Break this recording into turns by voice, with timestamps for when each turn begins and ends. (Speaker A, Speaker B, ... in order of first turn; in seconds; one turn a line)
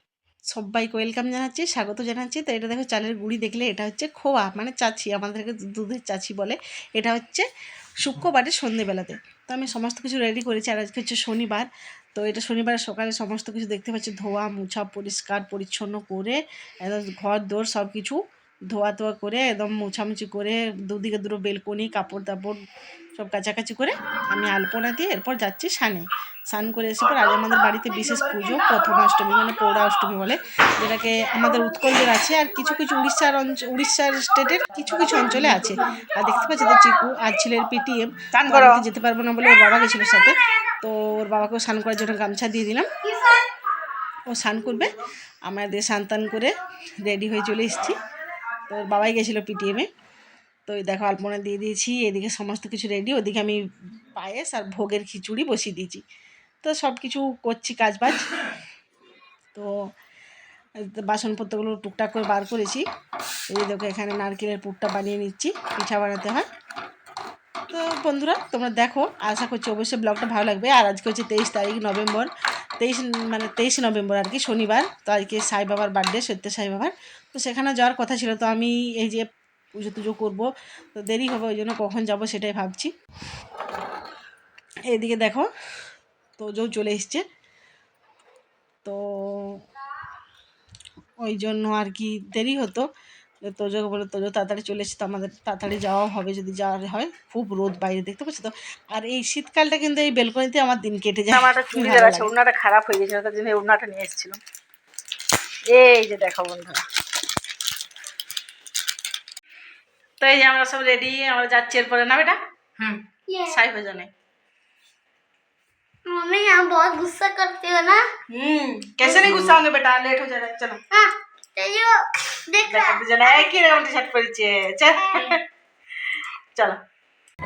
Speaker A: 0.5-7.5
Speaker A: 8.0-18.2
Speaker A: 18.7-22.6
Speaker A: 23.2-42.9
Speaker B: 38.3-38.8
Speaker A: 44.3-44.9
Speaker A: 45.5-48.0
Speaker A: 48.7-49.9
Speaker A: 50.7-53.6
Speaker A: 54.1-56.0
Speaker A: 56.6-58.3
Speaker A: 60.9-62.8
Speaker A: 63.5-66.5
Speaker A: 67.7-79.2
Speaker A: 79.8-80.5
Speaker A: 81.0-82.9
Speaker A: 84.9-85.5
Speaker A: 86.4-87.2
Speaker A: 88.8-89.6
Speaker A: 91.2-92.8
Speaker A: 93.5-102.3
Speaker B: 101.3-104.4
Speaker B: 105.7-106.8
Speaker B: 110.2-113.0
Speaker C: 113.3-113.6
Speaker B: 113.5-114.1
Speaker C: 116.1-118.0
Speaker B: 118.3-120.8
Speaker A: 119.1-119.4
Speaker C: 120.9-123.7
Speaker B: 122.7-125.4